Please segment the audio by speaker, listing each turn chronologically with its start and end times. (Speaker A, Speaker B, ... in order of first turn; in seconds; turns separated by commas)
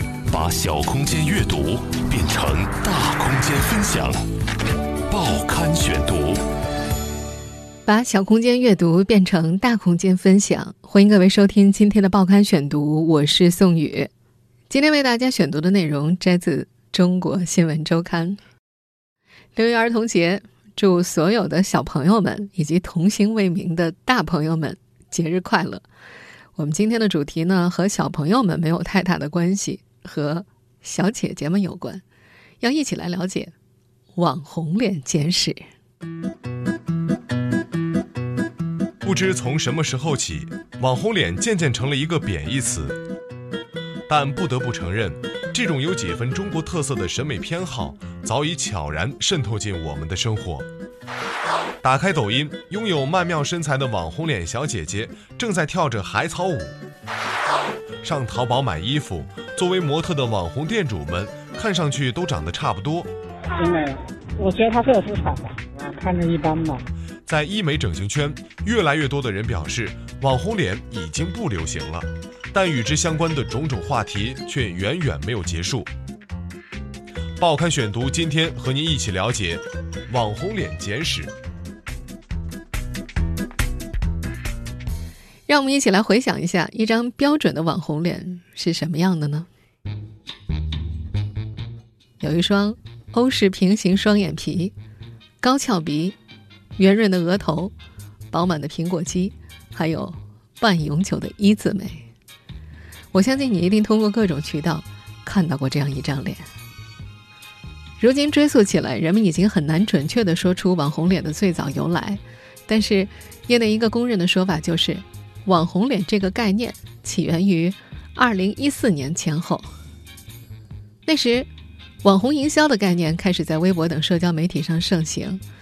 Speaker A: 0.3-4.2, Speaker A: 5.1-6.4, Speaker B: 7.8-14.1, Speaker B: 14.7-18.4, Speaker B: 19.6-25.8, Speaker B: 26.6-32.0, Speaker B: 32.6-33.5, Speaker B: 34.1-35.6, Speaker C: 39.0-43.0, Speaker C: 44.1-50.7, Speaker C: 51.8-56.8, Speaker C: 58.0-63.1, Speaker D: 63.5-66.8, Speaker C: 67.2-75.9, Speaker C: 77.4-81.3, Speaker B: 85.5-89.5, Speaker B: 92.2-94.7, Speaker B: 95.4-96.2, Speaker B: 96.8-97.7, Speaker B: 98.3-102.1, Speaker B: 103.1-106.4, Speaker B: 108.0-119.7, Speaker B: 121.0-121.5, Speaker B: 122.0-125.4